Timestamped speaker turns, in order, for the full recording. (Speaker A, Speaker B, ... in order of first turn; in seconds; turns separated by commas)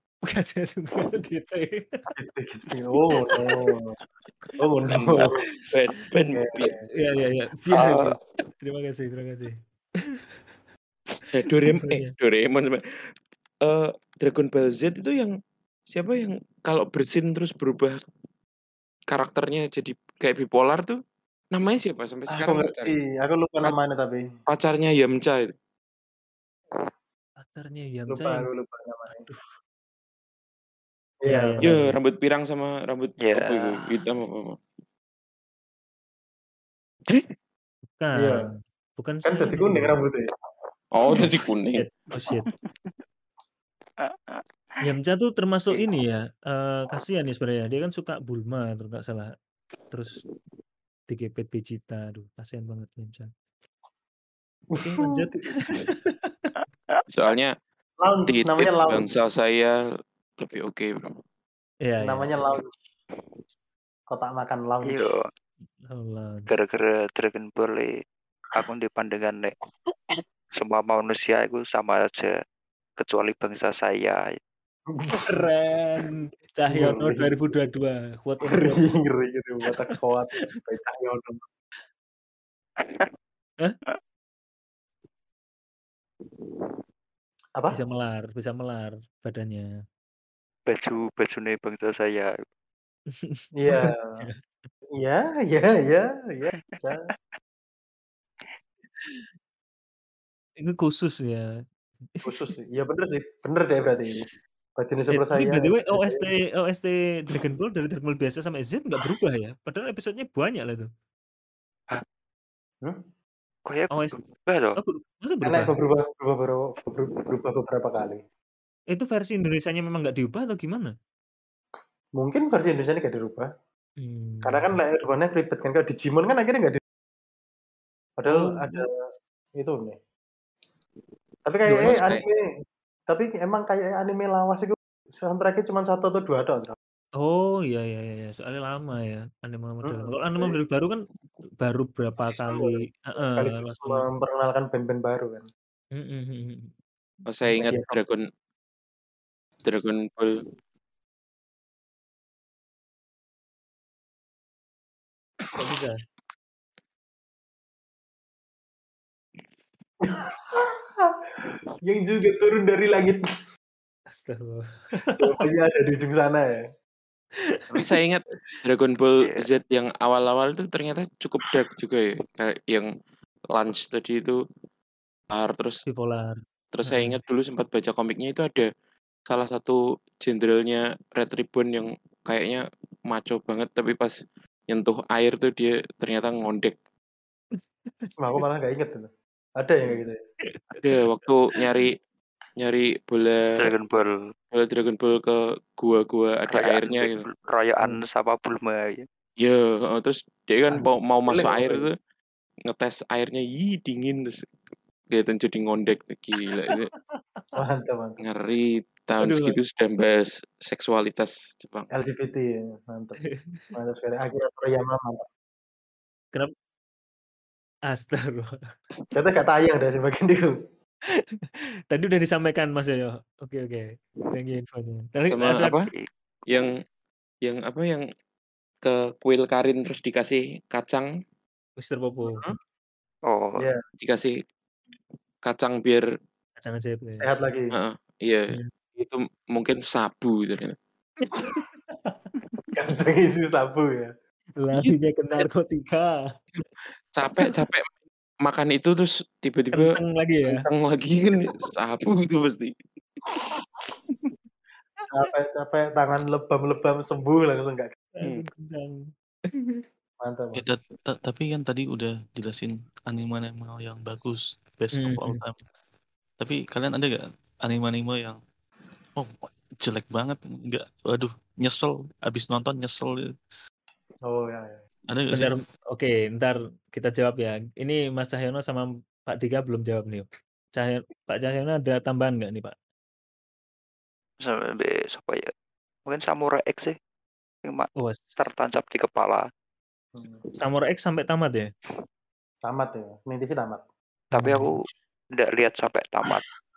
Speaker A: 0.3-2.0, Speaker B: 2.1-3.9, Speaker B: 4.6-5.4, Speaker C: 4.9-6.7, Speaker B: 6.3-6.9, Speaker A: 6.9-9.6, Speaker D: 7.8-8.1, Speaker B: 7.8-8.1, Speaker C: 11.3-12.8, Speaker A: 11.7-12.1, Speaker C: 13.6-15.3, Speaker C: 15.9-18.0, Speaker C: 19.1-21.0, Speaker C: 21.5-23.0, Speaker B: 22.3-24.2, Speaker C: 24.5-25.5, Speaker A: 27.4-28.5, Speaker B: 28.1-29.3, Speaker A: 29.1-29.5, Speaker B: 31.2-31.6, Speaker A: 31.3-31.9, Speaker C: 31.6-34.6, Speaker D: 33.2-34.1, Speaker A: 38.0-40.0, Speaker B: 38.2-38.5, Speaker B: 39.3-40.3, Speaker C: 40.9-41.8, Speaker A: 41.7-42.5, Speaker D: 42.1-42.9, Speaker D: 44.0-44.4, Speaker A: 44.8-49.3, Speaker A: 49.9-50.2, Speaker A: 51.1-53.3, Speaker B: 54.7-55.4, Speaker A: 54.8-56.3, Speaker C: 57.1-57.5, Speaker B: 58.0-59.1, Speaker C: 58.3-59.8, Speaker C: 60.4-61.1, Speaker A: 61.9-62.6, Speaker B: 62.0-62.7, Speaker B: 64.1-65.1, Speaker D: 64.8-65.3, Speaker A: 65.8-66.5, Speaker D: 66.5-68.0, Speaker D: 68.5-69.5, Speaker D: 70.6-72.3, Speaker D: 73.0-74.3, Speaker A: 75.0-78.8, Speaker B: 75.1-75.4, Speaker B: 76.7-77.5, Speaker B: 78.5-81.4, Speaker D: 82.8-83.1, Speaker D: 86.5-86.8, Speaker A: 87.7-89.7, Speaker D: 90.7-92.3, Speaker A: 93.2-94.4, Speaker B: 93.6-94.2, Speaker B: 95.0-97.0, Speaker D: 96.6-97.2, Speaker A: 99.0-99.3, Speaker A: 100.6-101.5, Speaker A: 102.1-102.4, Speaker B: 102.2-104.2, Speaker B: 104.8-106.3, Speaker A: 105.1-110.9, Speaker D: 113.7-114.8, Speaker A: 113.9-114.2, Speaker A: 114.8-115.7, Speaker B: 115.5-118.2, Speaker A: 118.9-120.9, Speaker B: 122.2-123.5, Speaker A: 124.0-124.8, Speaker B: 124.5-126.8, Speaker B: 128.2-128.9, Speaker A: 128.3-128.8, Speaker B: 129.6-130.0, Speaker B: 131.4-132.4, Speaker A: 131.7-132.0, Speaker C: 131.8-132.2, Speaker B: 133.1-136.8, Speaker A: 137.2-141.0, Speaker B: 139.8-140.5, Speaker A: 141.6-144.1, Speaker B: 142.3-145.5, Speaker A: 145.9-146.7, Speaker C: 147.3-148.3, Speaker B: 147.6-148.0, Speaker C: 149.6-150.4, Speaker A: 155.6-156.0, Speaker B: 161.8-163.2, Speaker A: 164.1-165.4, Speaker B: 165.2-166.6, Speaker A: 167.4-167.6, Speaker C: 167.7-172.9, Speaker D: 169.2-169.5, Speaker C: 173.5-174.4, Speaker C: 175.3-175.8, Speaker A: 175.9-177.2, Speaker C: 176.7-178.7, Speaker C: 179.3-184.2, Speaker C: 184.7-186.8, Speaker B: 188.2-190.2, Speaker A: 190.5-190.8, Speaker C: 190.8-191.9, Speaker C: 192.6-193.7, Speaker D: 193.6-194.1, Speaker C: 194.5-197.2, Speaker D: 196.5-199.0, Speaker C: 199.4-201.9, Speaker B: 200.7-201.9, Speaker C: 202.7-204.5, Speaker C: 205.1-206.9, Speaker A: 206.4-206.8, Speaker B: 207.6-208.2, Speaker C: 208.2-211.9, Speaker A: 209.2-209.6, Speaker B: 211.9-213.2, Speaker A: 213.2-213.7, Speaker B: 213.8-215.3, Speaker A: 217.9-218.6, Speaker B: 219.1-220.5, Speaker A: 221.9-225.8, Speaker C: 225.3-225.8, Speaker D: 225.9-226.7, Speaker C: 227.4-228.0, Speaker C: 228.8-231.1, Speaker A: 231.8-232.4, Speaker B: 232.2-232.6, Speaker D: 233.3-233.7, Speaker C: 234.0-234.3, Speaker C: 235.4-236.0, Speaker A: 236.6-237.3, Speaker B: 237.2-237.7, Speaker C: 237.7-240.8, Speaker A: 241.2-242.2, Speaker B: 242.8-244.1, Speaker A: 244.6-246.1, Speaker C: 244.8-245.4, Speaker C: 247.1-247.9, Speaker C: 248.4-252.8, Speaker A: 249.8-250.7, Speaker B: 255.1-257.9, Speaker A: 258.2-259.8, Speaker B: 260.2-260.6, Speaker E: 260.5-265.6, Speaker A: 264.9-265.4, Speaker E: 266.4-268.4, Speaker E: 269.2-273.2, Speaker B: 274.3-274.8, Speaker E: 275.1-275.6, Speaker A: 275.3-282.8, Speaker D: 284.4-285.5, Speaker D: 286.1-286.9, Speaker D: 287.6-289.5, Speaker A: 288.0-288.4, Speaker A: 290.6-291.7, Speaker B: 292.6-293.8, Speaker A: 294.3-294.7, Speaker D: 294.3-294.9, Speaker D: 295.4-296.4